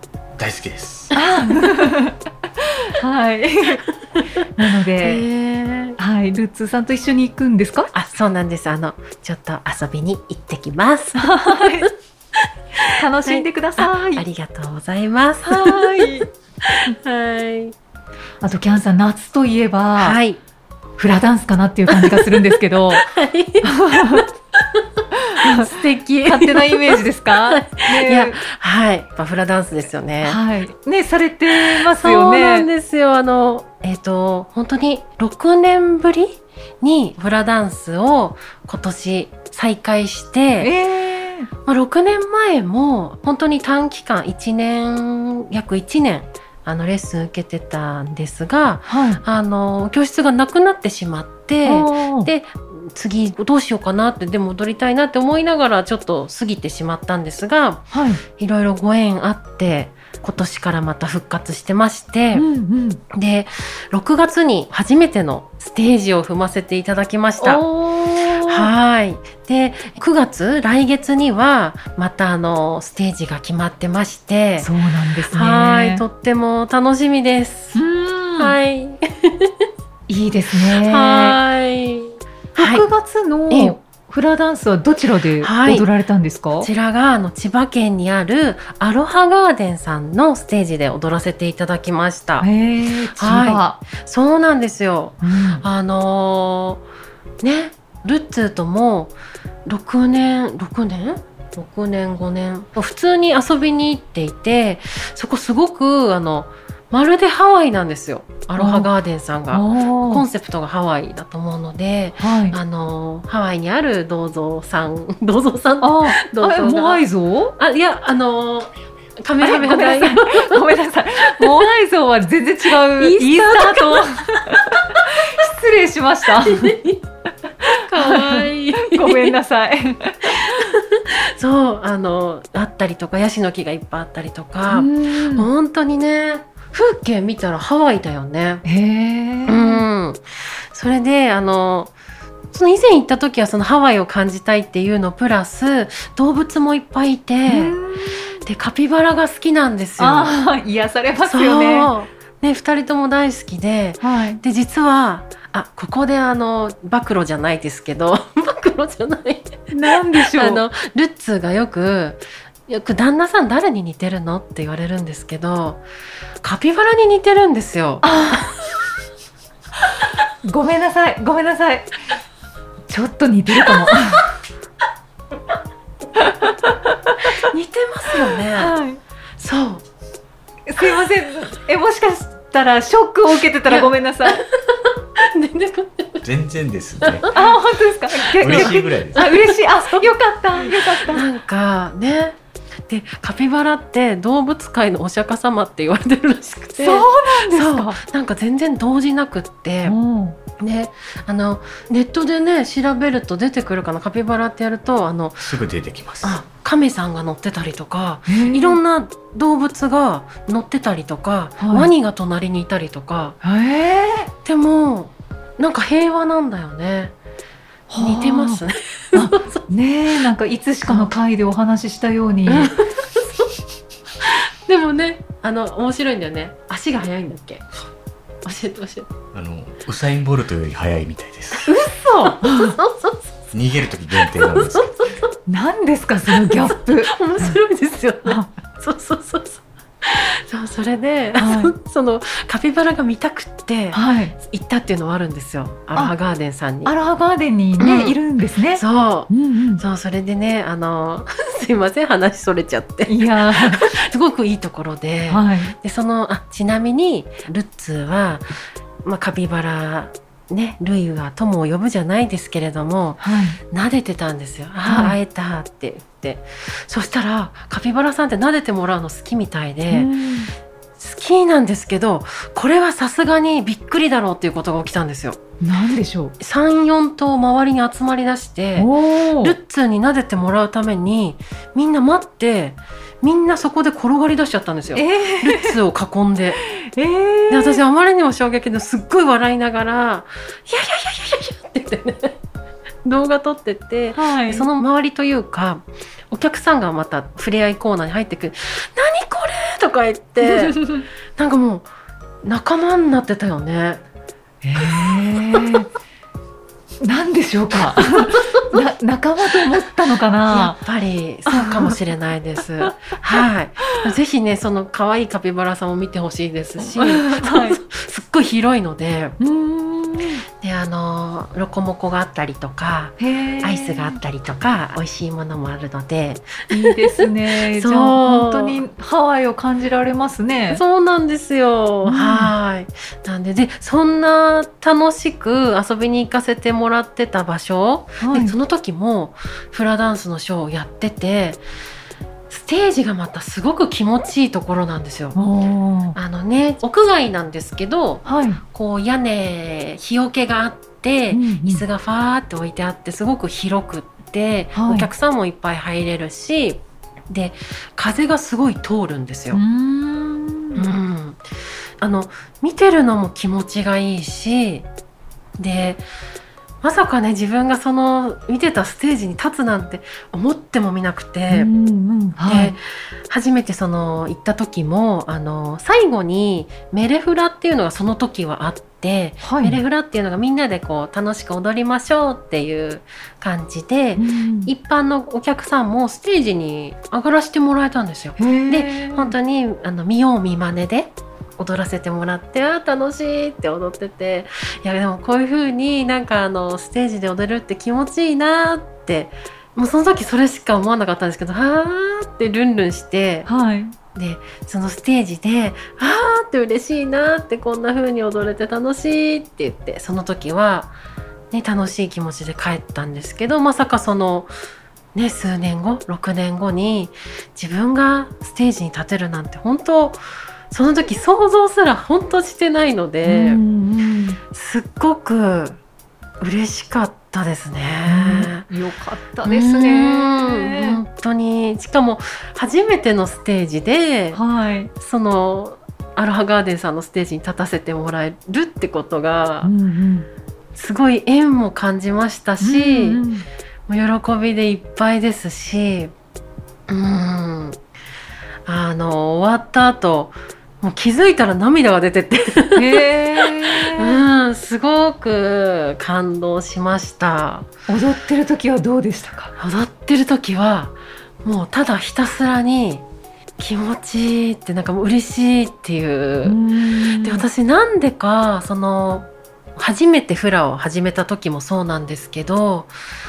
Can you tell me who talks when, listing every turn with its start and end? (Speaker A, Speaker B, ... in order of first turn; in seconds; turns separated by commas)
Speaker A: 0.4-1.1, Speaker B: 1.1-2.2, Speaker C: 1.2-1.7, Speaker B: 2.9-3.9, Speaker B: 4.5-5.2, Speaker C: 5.0-6.0, Speaker B: 6.0-7.9, Speaker C: 7.9-11.9, Speaker B: 11.2-11.9, Speaker C: 12.8-17.8, Speaker B: 12.9-14.2, Speaker B: 15.5-16.3, Speaker B: 18.4-20.2, Speaker C: 20.0-20.4, Speaker B: 21.0-23.1, Speaker C: 21.9-24.8, Speaker B: 23.6-24.3, Speaker B: 25.3-25.7, Speaker C: 25.4-30.4, Speaker B: 26.2-28.4, Speaker B: 30.2-32.7, Speaker C: 31.5-40.7, Speaker B: 40.6-41.5, Speaker C: 41.6-62.5, Speaker B: 48.9-49.2, Speaker B: 51.6-52.3, Speaker B: 57.9-58.2, Speaker B: 62.3-63.0, Speaker C: 63.1-67.7, Speaker B: 67.4-68.7, Speaker C: 68.4-74.7, Speaker B: 74.6-76.0, Speaker C: 75.3-77.8, Speaker B: 77.8-78.6, Speaker C: 78.4-79.7, Speaker B: 80.1-81.4, Speaker C: 80.7-82.9, Speaker B: 82.6-86.7, Speaker C: 83.5-83.8, Speaker C: 85.4-85.9, Speaker C: 86.6-92.5, Speaker B: 92.4-93.8, Speaker C: 93.2-96.8, Speaker B: 95.2-95.6, Speaker C: 97.4-99.2, Speaker C: 99.7-120.6, Speaker B: 108.6-108.9, Speaker B: 109.5-110.3, Speaker B: 112.2-112.6, Speaker B: 115.8-117.5, Speaker B: 119.4-126.8, Speaker C: 121.2-121.6, Speaker C: 122.7-124.2, Speaker C: 126.3-127.0, Speaker C: 127.8-129.4, Speaker B: 127.9-130.6, Speaker C: 130.4-138.6, Speaker B: 134.7-135.5, Speaker B: 138.7-139.8, Speaker C: 139.5-141.9, Speaker C: 142.5-147.8, Speaker B: 147.5-148.4, Speaker C: 148.3-150.4, Speaker B: 150.0-151.9, Speaker C: 151.2-165.8, Speaker B: 154.0-154.4, Speaker B: 159.7-160.6, Speaker C: 166.4-168.4, Speaker B: 168.0-168.5, Speaker B: 170.4-171.9, Speaker B: 172.9-174.3, Speaker B: 176.2-176.8, Speaker C: 177.4-178.8, Speaker B: 178.4-179.0, Speaker C: 179.4-179.9, Speaker B: 180.7-184.4, Speaker C: 183.6-186.2, Speaker A: 186.2-187.3, Speaker C: 187.0-187.6, Speaker B: 187.3-191.3, Speaker A: 188.4-189.3, Speaker C: 189.2-190.1, Speaker C: 190.8-200.0, Speaker B: 196.8-198.0, Speaker B: 199.8-200.4, Speaker C: 200.6-205.5, Speaker A: 205.4-206.4, Speaker C: 206.2-213.4, Speaker B: 208.3-208.8, Speaker B: 211.6-211.9, Speaker B: 213.4-214.3, Speaker C: 214.4-217.1, Speaker B: 217.9-218.6, Speaker C: 218.0-219.6, Speaker B: 219.1-222.7, Speaker C: 220.9-221.1, Speaker C: 222.5-223.4, Speaker C: 224.3-227.7, Speaker C: 228.4-229.1, Speaker A: 229.3-231.7, Speaker C: 231.6-233.3, Speaker B: 231.7-232.8, Speaker A: 233.5-234.9, Speaker C: 234.1-235.3, Speaker B: 235.5-237.6, Speaker C: 236.3-246.9, Speaker B: 238.2-238.5, Speaker B: 241.4-241.7, Speaker B: 243.9-244.4, Speaker B: 246.8-249.8, Speaker C: 247.8-248.2, Speaker C: 248.7-270.1, Speaker B: 253.1-253.9, Speaker B: 255.3-255.7, Speaker B: 263.2-263.6, Speaker B: 264.8-265.2, Speaker B: 269.9-270.5, Speaker C: 271.0-275.4, Speaker B: 275.6-276.3, Speaker C: 276.4-286.6, Speaker B: 278.8-279.6, Speaker B: 284.9-285.8, Speaker B: 286.6-287.8, Speaker C: 287.5-292.4, Speaker C: 293.1-301.9, Speaker B: 294.1-294.7, Speaker B: 300.4-301.1, Speaker C: 302.4-304.0, Speaker B: 304.6-305.9, Speaker C: 304.8-305.8, Speaker B: 307.0-310.8, Speaker C: 310.5-319.4, Speaker B: 311.5-311.9, Speaker B: 312.8-314.0, Speaker B: 316.8-317.8, Speaker B: 319.4-320.4, Speaker C: 320.6-328.8, Speaker B: 323.2-324.2, Speaker B: 326.7-330.8, Speaker C: 330.7-341.6, Speaker B: 332.0-332.5, Speaker B: 338.2-338.6, Speaker C: 342.5-345.4, Speaker B: 345.4-346.2, Speaker C: 346.1-359.6, Speaker B: 348.2-348.6, Speaker B: 351.3-351.9, Speaker B: 354.7-355.1, Speaker B: 359.5-360.9, Speaker C: 360.8-361.4, Speaker C: 362.0-364.9, Speaker C: 365.6-366.1, Speaker C: 366.8-371.7, Speaker B: 371.5-372.8, Speaker C: 372.4-403.5, Speaker B: 379.4-379.8, Speaker B: 384.2-384.7, Speaker B: 388.4-389.3, Speaker B: 403.5-403.9, Speaker C: 404.1-410.9, Speaker C: 411.5-414.5, Speaker C: 415.1-423.6, Speaker B: 423.2-424.4, Speaker C: 424.5-425.8, Speaker C: 426.4-428.7, Speaker B: 428.1-431.0, Speaker C: 429.4-434.4, Speaker B: 434.3-434.9, Speaker C: 434.9-439.7, Speaker B: 439.6-440.3, Speaker C: 440.7-443.2, Speaker B: 442.6-443.5, Speaker C: 443.9-446.1, Speaker C: 446.9-447.8, Speaker C: 448.7-457.7, Speaker B: 452.8-454.2, Speaker B: 457.9-459.5, Speaker C: 459.6-463.1, Speaker C: 463.6-472.9, Speaker B: 466.4-467.4